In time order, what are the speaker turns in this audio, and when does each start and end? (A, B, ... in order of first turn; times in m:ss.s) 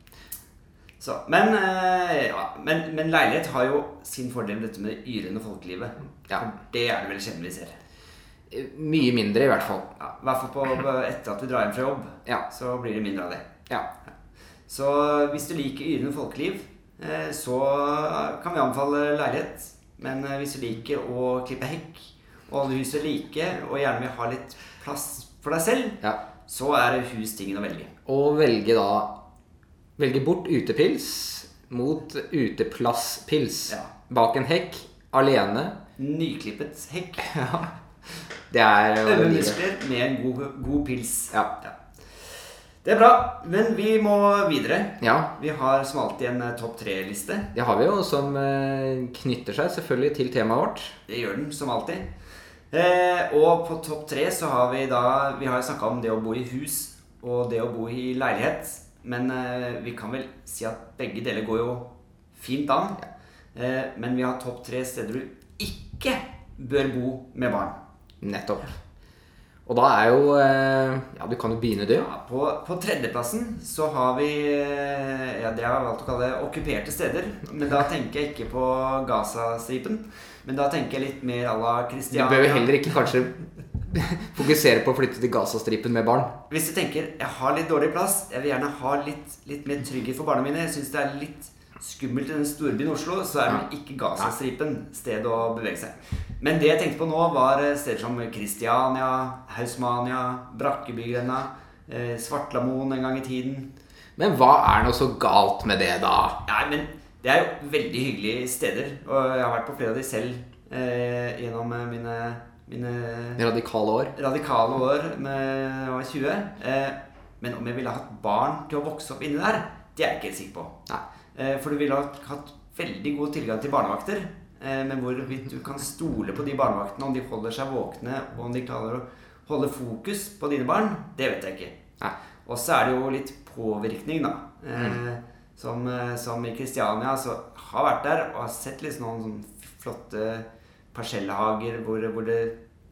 0:01.0-0:07.8 A
0:08.5-0:09.9 B
0:10.0-0:13.5 A
0:14.7-0:27.9 A
0:28.0-0:29.1 B
0:30.0-0:35.8 B
0:36.0-0:37.3 A
0:37.2-0:37.7 B
0:38.5-0:39.6 B
0:39.0-0:42.3 A
0:42.8-0:47.5 A
0:45.0-0:45.3 B
0:47.5-0:50.9 B
0:51.1-0:52.1 A
0:52.7-1:07.8 A
1:08.2-1:08.8 B
1:09.6-1:12.1 B
1:11.9-1:22.7 A
1:22.1-1:23.3 B
1:23.9-1:26.3 B
1:26.5-1:43.7 A
1:44.2-1:46.4 B
1:46.5-1:53.4 A
1:53.4-1:54.1 B
1:54.2-2:00.7 A
2:01.3-2:11.8 A
2:12.4-2:22.5 A